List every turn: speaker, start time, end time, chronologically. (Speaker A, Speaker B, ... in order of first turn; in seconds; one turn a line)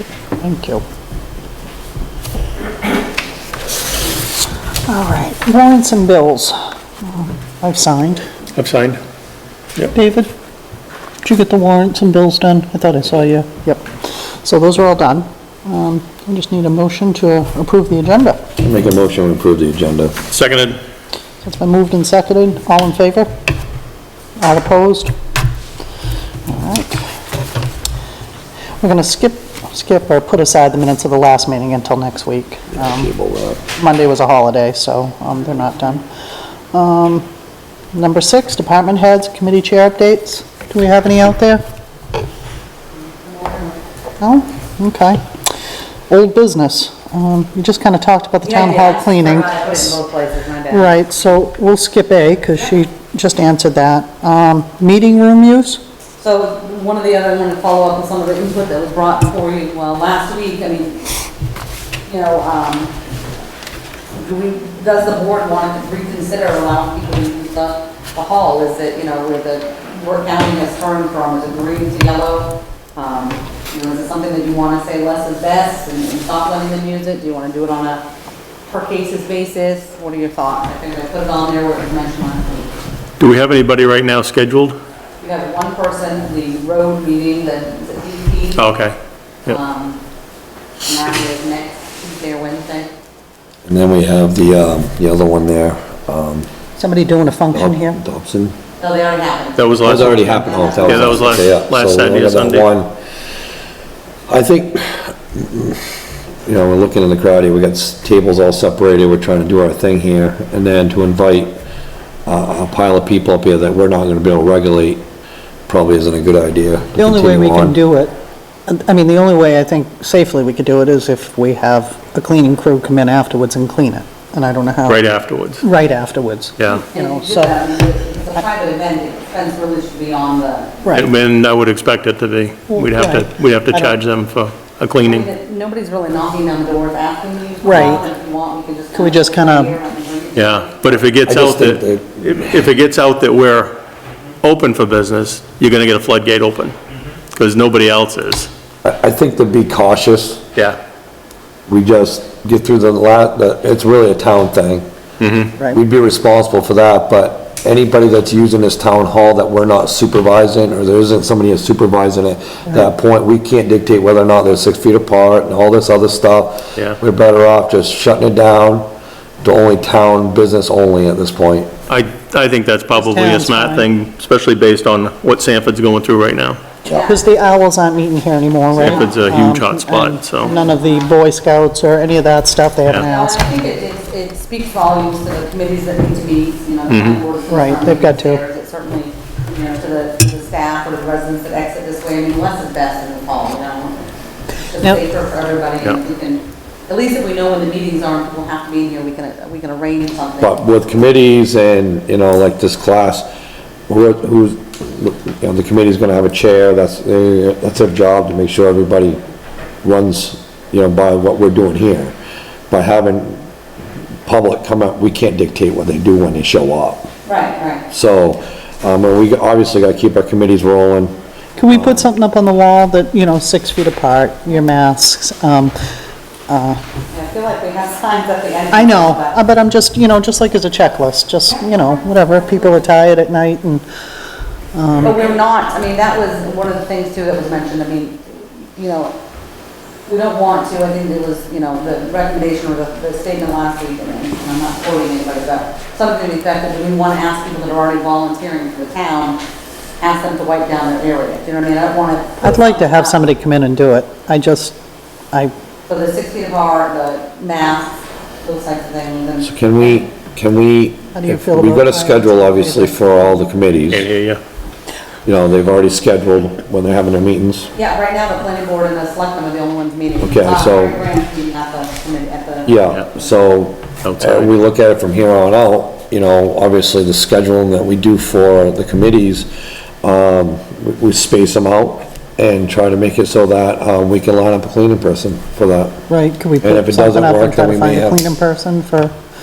Speaker A: 0.4-0.8
Speaker A: 4.9-8.2
Speaker B: 8.6-9.0
Speaker A: 9.9-10.3
Speaker A: 11.2-13.8
Speaker A: 14.4-18.4
Speaker C: 18.6-20.1
Speaker B: 20.3-20.8
Speaker A: 21.4-23.3
Speaker A: 24.4-25.1
Speaker A: 26.5-27.1
Speaker A: 28.8-33.1
Speaker C: 32.8-33.6
Speaker A: 33.6-36.0
Speaker A: 36.7-37.2
Speaker A: 37.9-41.6
Speaker D: 43.0-43.8
Speaker A: 44.2-45.2
Speaker A: 46.1-50.0
Speaker D: 48.4-51.0
Speaker A: 50.7-55.8
Speaker D: 56.2-61.1
Speaker D: 62.0-62.9
Speaker D: 64.2-78.0
Speaker D: 78.7-82.7
Speaker B: 83.2-84.8
Speaker D: 85.2-88.7
Speaker B: 88.6-88.9
Speaker D: 89.5-90.0
Speaker D: 90.8-92.9
Speaker C: 93.7-96.5
Speaker A: 96.8-98.0
Speaker C: 97.5-98.5
Speaker D: 98.8-101.5
Speaker B: 99.6-102.7
Speaker C: 99.8-102.9
Speaker C: 104.3-105.8
Speaker C: 106.4-111.6
Speaker C: 112.2-115.0
Speaker C: 115.7-117.8
Speaker A: 117.0-118.1
Speaker A: 118.7-125.0
Speaker B: 124.9-125.6
Speaker A: 125.6-127.5
Speaker D: 126.7-130.9
Speaker A: 130.8-131.1
Speaker B: 130.9-135.3
Speaker A: 132.7-133.9
Speaker D: 135.0-141.0
Speaker A: 137.6-138.0
Speaker A: 138.9-139.7
Speaker B: 140.3-143.7
Speaker C: 141.3-142.5
Speaker B: 144.4-146.7
Speaker B: 147.3-148.5
Speaker C: 148.8-150.4
Speaker C: 151.7-154.8
Speaker B: 155.2-155.5
Speaker C: 155.7-168.9
Speaker C: 169.4-171.7
Speaker B: 171.9-176.6
Speaker A: 172.9-173.9
Speaker A: 176.8-183.4
Speaker D: 176.9-177.2
Speaker B: 178.7-180.5
Speaker D: 180.4-181.1
Speaker D: 182.9-200.6
Speaker B: 186.9-187.2
Speaker A: 187.5-188.4
Speaker C: 200.4-203.3
Speaker C: 203.9-209.2
Speaker C: 209.8-212.1
Speaker C: 212.7-213.4
Speaker C: 214.2-217.1
Speaker D: 217.2-217.8
Speaker C: 217.9-221.1
Speaker A: 221.6-225.7
Speaker C: 221.7-222.1
Speaker A: 226.5-226.8
Speaker D: 227.1-229.3
Speaker A: 228.7-233.8
Speaker A: 234.7-235.2
Speaker D: 235.0-239.1
Speaker D: 240.1-249.4
Speaker D: 250.0-253.2
Speaker A: 252.4-254.8
Speaker D: 255.9-260.1
Speaker C: 259.4-264.1
Speaker A: 261.1-263.3
Speaker B: 263.9-264.4
Speaker C: 265.2-267.7
Speaker D: 267.8-272.8
Speaker C: 270.2-271.0
Speaker C: 272.6-279.5
Speaker B: 274.0-274.5
Speaker C: 280.0-286.0
Speaker A: 286.1-289.1
Speaker C: 286.6-288.2